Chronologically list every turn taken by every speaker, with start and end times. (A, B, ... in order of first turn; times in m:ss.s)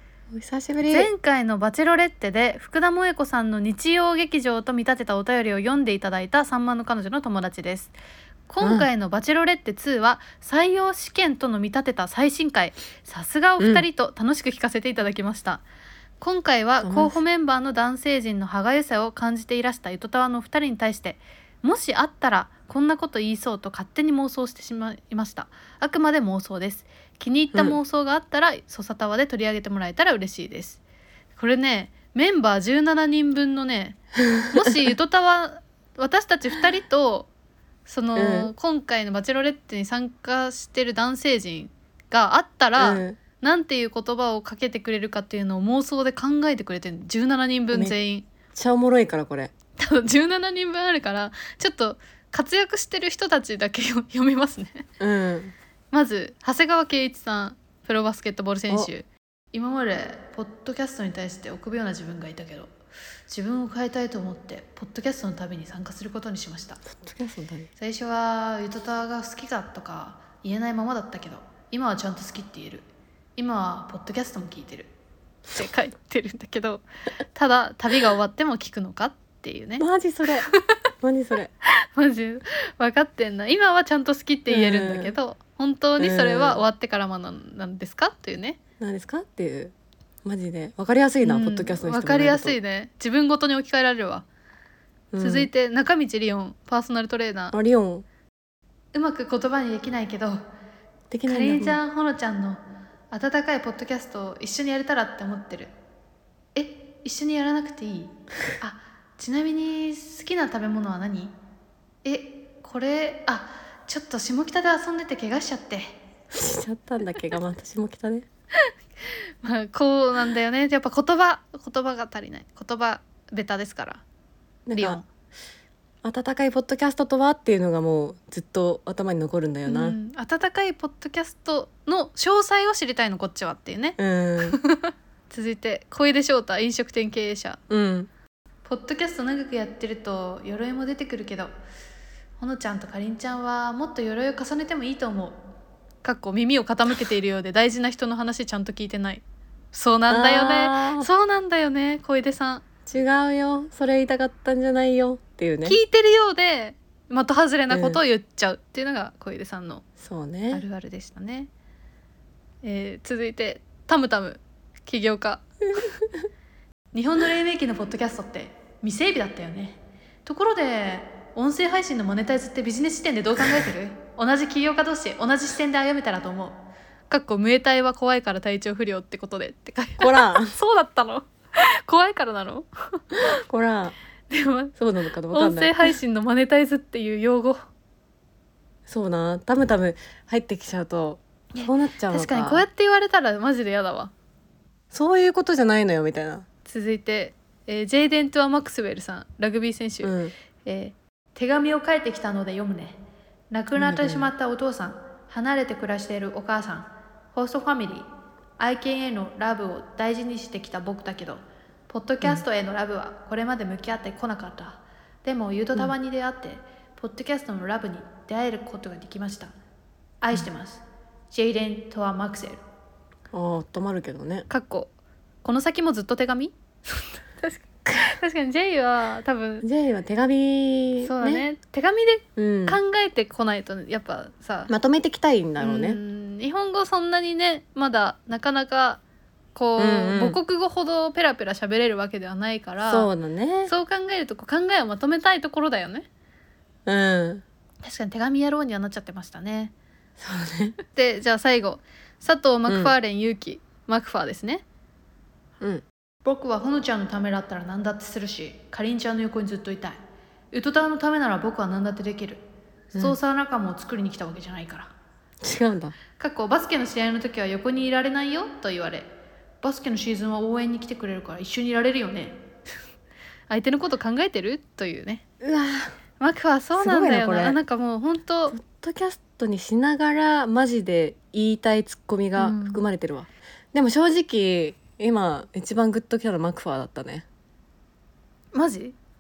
0:00.3-0:01.1 A
0:00.8-0:07.9 B
0:08.5-0:15.6 B
0:08.6-0:08.9 A
0:13.6-0:13.8 A
0:16.2-0:30.8 B
0:16.8-0:17.2 A
0:31.4-0:37.3 B
0:37.8-0:48.3 B
0:38.2-0:38.5 A
0:42.8-0:43.2 A
0:48.5-0:49.5 A
0:49.8-0:54.8 B
0:55.0-0:55.5 A
0:55.9-1:02.7 B
1:03.3-1:06.8 B
1:06.8-1:07.7 A
1:07.8-1:12.8 B
1:13.4-1:14.9 B
1:15.5-1:19.8 B
1:19.8-1:20.5 A
1:21.0-1:21.5 A
1:21.9-1:28.6 B
1:24.5-1:25.1 A
1:26.0-1:26.6 A
1:28.8-1:29.7 A
1:30.2-1:32.6 A
1:31.2-1:34.2 B
1:35.1-1:35.5 A
1:35.2-1:37.6 B
1:37.5-1:38.0 A
1:38.9-1:40.4 B
1:41.1-1:41.8 A
1:41.3-1:42.6 B
1:43.1-1:45.7 B
1:46.5-1:51.3 B
1:52.0-1:56.0 B
1:56.3-1:58.2 A
1:59.4-2:04.0 B
2:04.6-2:05.0 A
2:04.8-2:05.0 B
2:06.0-2:10.0 A
2:09.6-2:17.6 B
2:14.0-2:14.6 A
2:17.7-2:18.1 A
2:18.6-2:21.5 B
2:22.4-2:25.4 B
2:26.0-2:32.6 B
2:30.1-2:31.1 A
2:32.8-2:35.8 A
2:35.6-2:39.8 B
2:37.7-2:38.0 A
2:40.0-2:40.6 A
2:40.5-2:41.5 B
2:42.6-2:45.4 B
2:46.9-3:03.0 B
3:00.0-3:00.5 A
3:03.5-3:03.9 A
3:04.3-3:04.7 B
3:04.8-3:05.9 A
3:05.3-3:07.6 B
3:08.9-3:12.6 A
3:11.5-3:14.1 B
3:14.9-3:16.4 A
3:16.6-3:20.1 B
3:20.0-3:20.3 A
3:20.6-3:23.0 B
3:23.5-3:28.0 B
3:23.7-3:24.3 A
3:28.6-3:39.5 B
3:40.2-3:42.6 B
3:43.3-3:44.5 A
3:44.5-3:44.9 B
3:45.4-3:49.6 B
3:49.6-3:51.4 A
3:51.0-3:54.7 B
3:52.4-3:52.8 A
3:54.7-3:56.0 A
3:55.6-3:59.0 B
3:59.5-4:03.1 B
3:59.8-4:00.4 A
4:02.8-4:03.7 A
4:03.7-4:06.1 B
4:06.8-4:07.4 A
4:07.8-4:09.7 B
4:10.2-4:10.8 A
4:10.8-4:14.6 B
4:12.7-4:12.9 A
4:15.6-4:15.8 A
4:16.2-4:20.0 B
4:20.5-4:22.4 B
4:22.9-4:24.9 B
4:25.4-4:25.9 A
4:26.2-4:29.1 B
4:29.6-4:32.4 B
4:33.5-4:35.2 B
4:35.4-4:35.9 A
4:36.2-4:38.6 B
4:36.8-4:37.6 A
4:38.5-4:47.2 A
4:42.4-4:42.8 B
4:48.5-4:49.0 B